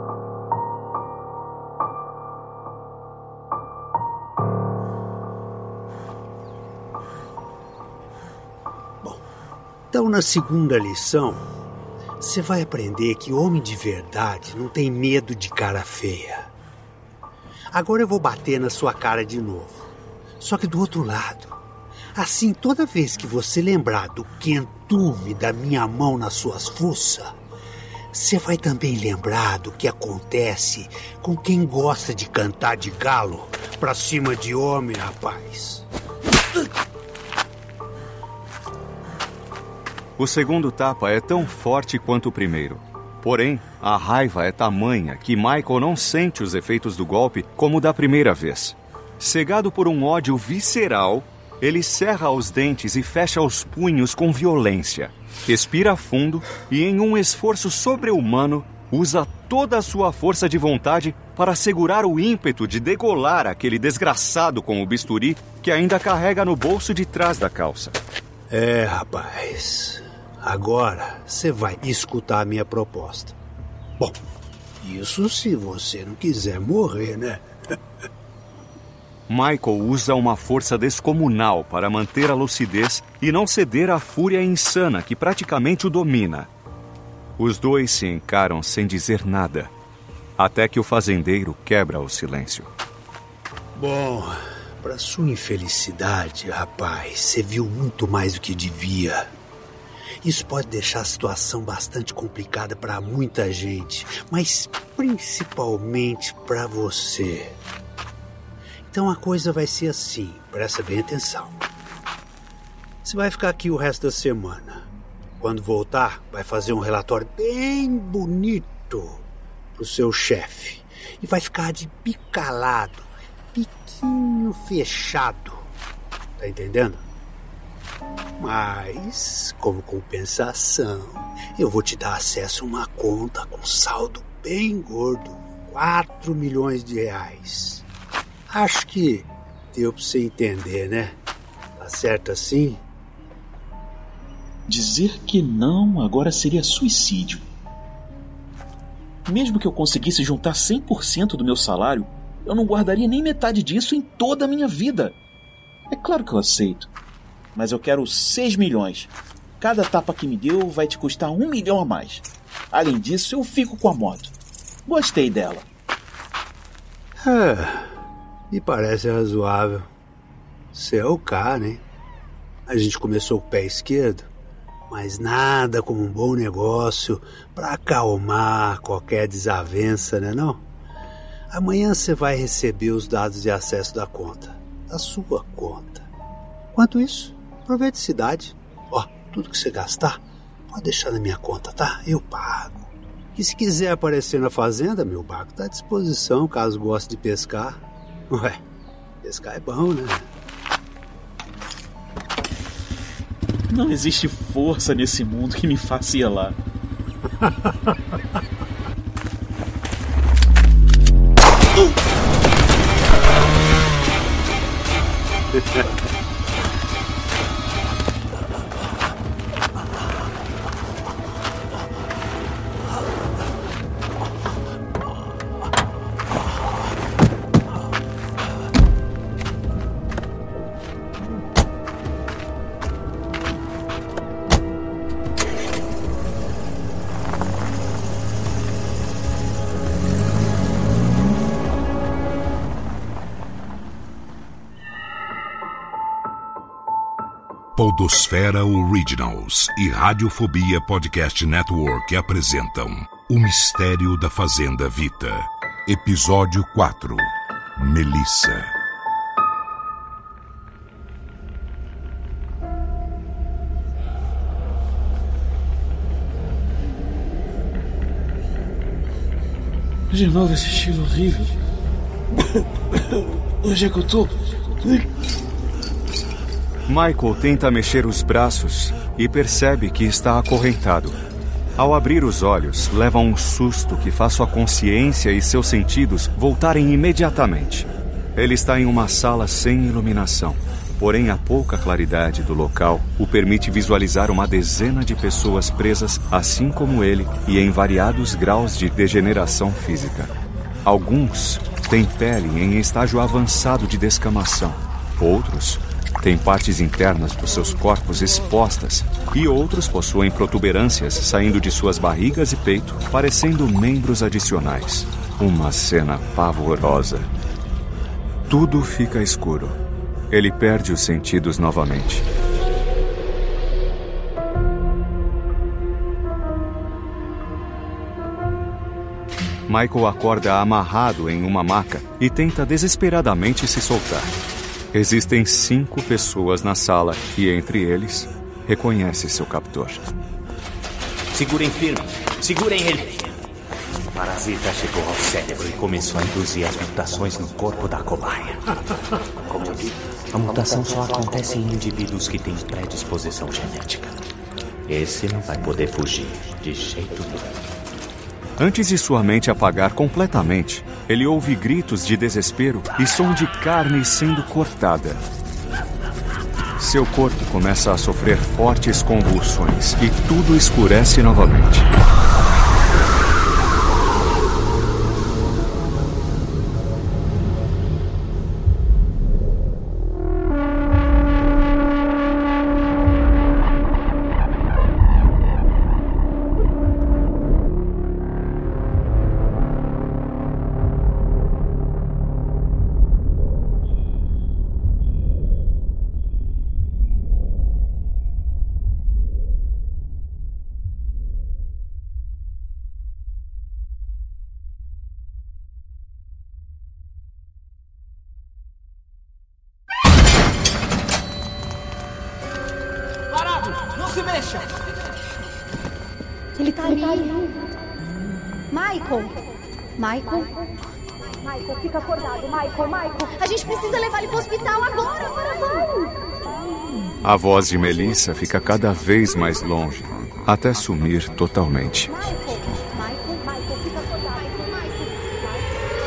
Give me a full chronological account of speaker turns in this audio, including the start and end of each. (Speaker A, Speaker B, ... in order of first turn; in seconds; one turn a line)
Speaker A: 9.9-11.5
Speaker A: 12.2-16.5
Speaker A: 17.7-19.9
Speaker A: 20.4-21.6
Speaker A: 22.2-27.3
Speaker A: 28.1-35.9
Speaker B: 40.2-68.0
Speaker A: 68.5-73.4
Speaker A: 74.8-77.5
Speaker B: 79.3-86.5
Speaker B: 87.4-89.7
Speaker B: 90.4-92.7
Speaker A: 93.8-99.3
Speaker A: 100.2-107.6
Speaker A: 108.9-111.6
Speaker A: 113.0-114.9
Speaker A: 115.4-119.2
Speaker A: 119.8-125.7
Speaker A: 126.4-127.0
Speaker A: 128.4-137.9
Speaker A: 138.5-141.2
Speaker A: 141.8-142.8
Speaker C: 144.7-147.4
Speaker C: 149.3-155.2
Speaker C: 155.9-156.9
Speaker C: 157.6-164.3
Speaker C: 164.9-165.7
Speaker A: 167.2-167.9
Speaker A: 168.5-169.9
Speaker A: 170.7-171.8
Speaker A: 172.7-174.3
Speaker A: 174.9-180.6
Speaker A: 181.5-186.1
Speaker A: 186.7-198.6
Speaker A: 199.2-200.3
Speaker C: 203.7-206.6
Speaker D: 247.8-258.7
Speaker C: 270.1-271.5
Speaker C: 273.6-275.0
Speaker B: 276.9-281.2
Speaker B: 281.8-300.3
Speaker B: 300.8-317.3
Speaker B: 318.5-319.8
Speaker B: 320.3-322.2
Speaker B: 329.7-334.3
Speaker B: 334.9-340.0
Speaker E: 341.3-343.4
Speaker E: 344.1-348.8
Speaker E: 349.5-354.2
Speaker E: 354.9-357.6
Speaker B: 358.6-365.2
Speaker B: 366.8-371.9
Speaker F: 416.6-417.6
Speaker F: 418.7-419.4
Speaker F: 420.0-420.7
Speaker F: 421.9-426.1
Speaker B: 427.2-432.2
Speaker F: 432.1-435.4